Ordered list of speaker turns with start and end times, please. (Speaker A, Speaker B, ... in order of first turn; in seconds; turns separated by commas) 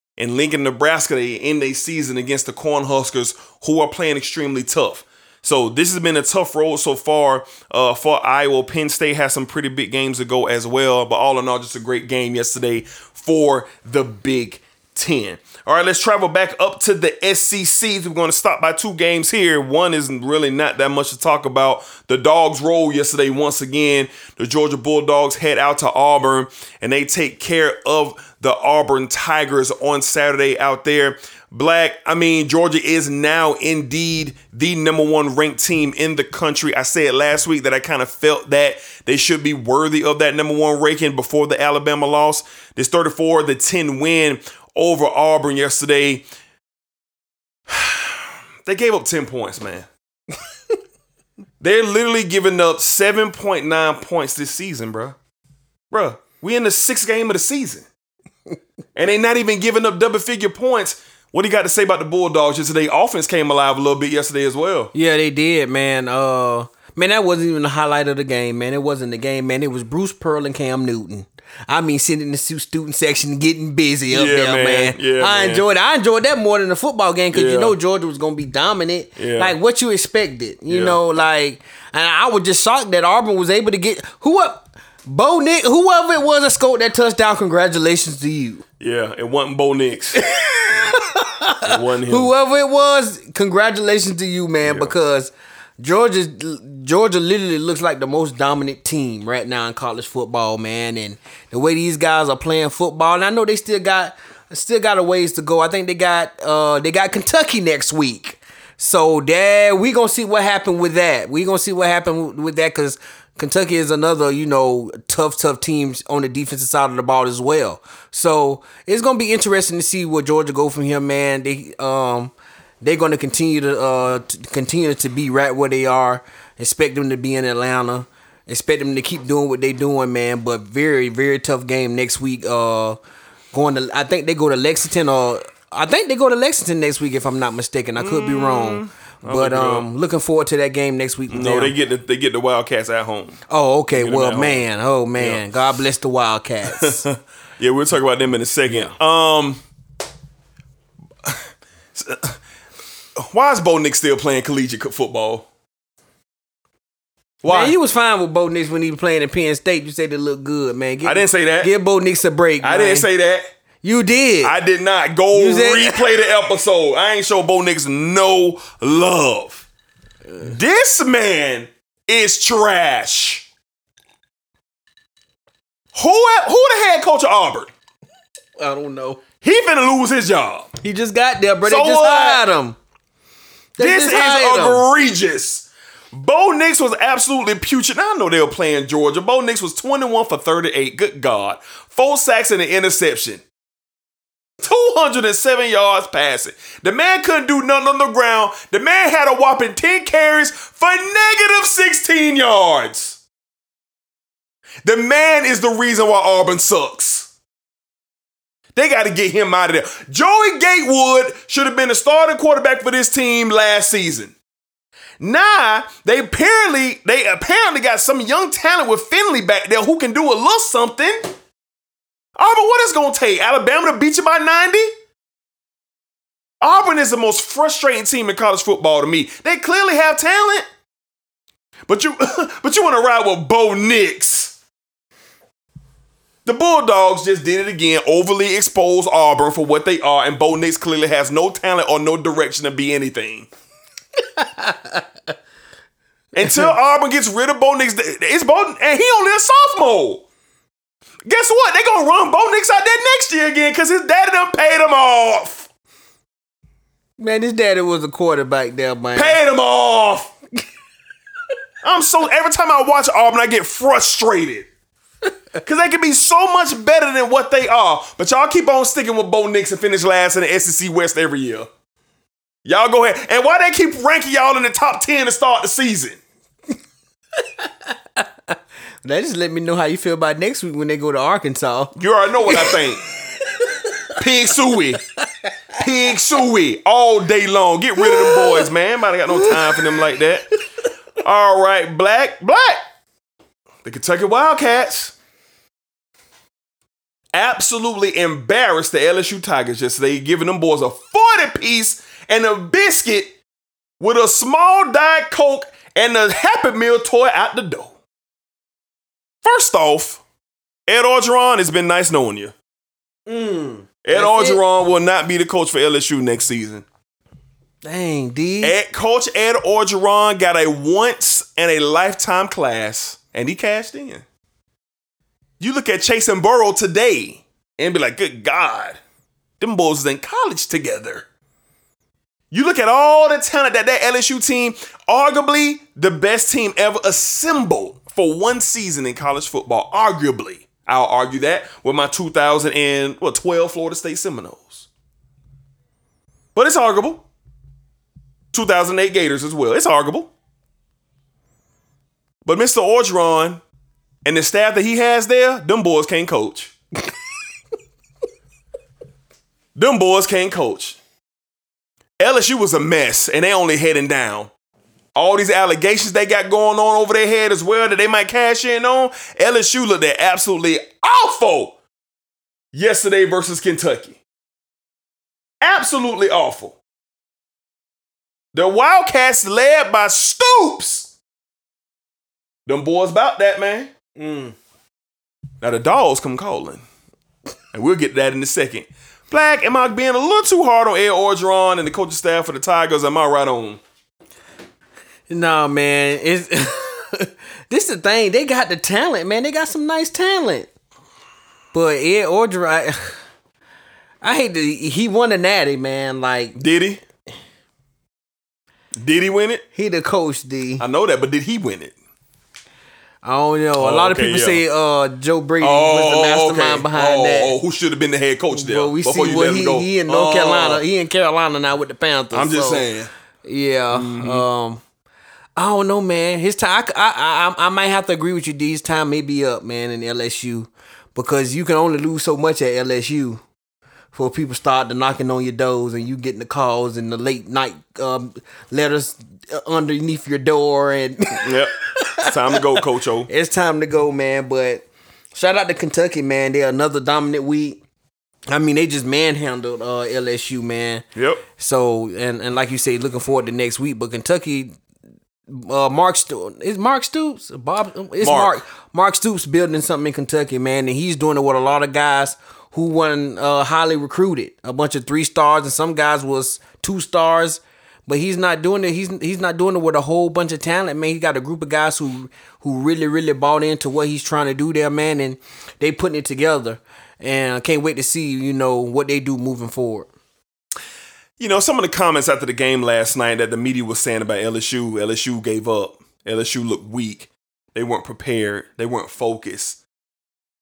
Speaker A: 0.2-46.2, Speaker A: 47.7-49.9, Speaker A: 51.6-55.1, Speaker A: 55.9-57.9, Speaker A: 58.9-64.9, Speaker B: 64.9-88.6, Speaker A: 74.1-75.6, Speaker A: 77.3-77.8, Speaker A: 79.2-79.5, Speaker A: 80.7-81.0, Speaker A: 88.8-90.2, Speaker B: 90.3-133.0, Speaker A: 91.6-92.3, Speaker A: 94.6-94.9, Speaker B: 133.5-141.7, Speaker A: 137.9-139.9, Speaker A: 141.3-143.4, Speaker B: 143.5-147.1, Speaker A: 143.9-144.6, Speaker A: 145.2-145.4, Speaker A: 146.8-149.6, Speaker A: 151.9-152.4, Speaker A: 153.2-155.5, Speaker A: 157.4-157.7, Speaker B: 157.4-163.1, Speaker A: 161.0-161.7, Speaker A: 162.6-163.5, Speaker B: 163.8-164.5, Speaker A: 164.4-169.7, Speaker B: 165.3-166.1, Speaker A: 170.4-173.5, Speaker A: 175.9-177.7, Speaker B: 178.6-179.2, Speaker A: 179.4-180.7, Speaker B: 180.8-182.8, Speaker A: 181.6-182.4, Speaker B: 183.8-184.8, Speaker A: 183.8-193.4, Speaker A: 194.6-203.2, Speaker A: 204.8-207.3, Speaker A: 208.7-214.3, Speaker A: 215.2-221.3, Speaker A: 222.3-224.9, Speaker A: 226.6-230.7, Speaker A: 231.9-234.6, Speaker A: 236.4-243.5, Speaker B: 244.3-245.0, Speaker A: 246.3-250.2, Speaker A: 251.3-255.7, Speaker B: 257.2-259.4, Speaker A: 259.1-260.3, Speaker A: 261.8-264.7, Speaker A: 265.6-271.7, Speaker A: 272.6-276.2, Speaker B: 277.6-281.9, Speaker A: 281.9-283.0, Speaker B: 282.4-282.7, Speaker A: 284.1-285.0, Speaker A: 285.8-290.5, Speaker B: 288.2-288.6, Speaker A: 291.2-292.8, Speaker A: 293.8-295.1, Speaker A: 297.3-303.3, Speaker A: 304.0-307.9, Speaker A: 309.4-310.2, Speaker A: 310.9-312.5, Speaker B: 313.3-314.6, Speaker A: 314.0-316.9, Speaker B: 317.8-318.7, Speaker A: 318.6-324.2, Speaker A: 325.6-329.0, Speaker A: 329.6-331.2, Speaker A: 332.5-344.9, Speaker A: 346.5-347.2, Speaker A: 348.5-350.3, Speaker A: 352.4-353.6, Speaker A: 354.2-356.7, Speaker A: 359.7-361.0, Speaker A: 362.2-364.5, Speaker A: 365.1-371.8, Speaker A: 372.7-374.2, Speaker A: 375.6-376.8, Speaker A: 378.5-381.1, Speaker A: 382.6-383.9, Speaker B: 384.1-384.5, Speaker A: 385.6-386.8, Speaker A: 387.7-393.8, Speaker B: 395.3-400.7, Speaker B: 401.7-403.2, Speaker B: 404.2-406.6, Speaker A: 406.5-407.0, Speaker A: 409.0-409.6, Speaker B: 409.7-410.8, Speaker A: 410.8-411.9, Speaker B: 413.2-417.6, Speaker A: 413.8-414.6, Speaker A: 415.6-420.8, Speaker B: 418.5-422.8, Speaker A: 422.3-423.1, Speaker B: 423.4-424.8, Speaker A: 423.9-424.4, Speaker B: 425.6-433.4, Speaker B: 434.1-442.5, Speaker A: 441.4-443.3, Speaker B: 443.3-447.8, Speaker B: 448.5-451.0, Speaker A: 451.1-451.4, Speaker B: 451.6-454.7, Speaker B: 455.5-480.1, Speaker A: 458.2-458.6, Speaker A: 481.4-489.8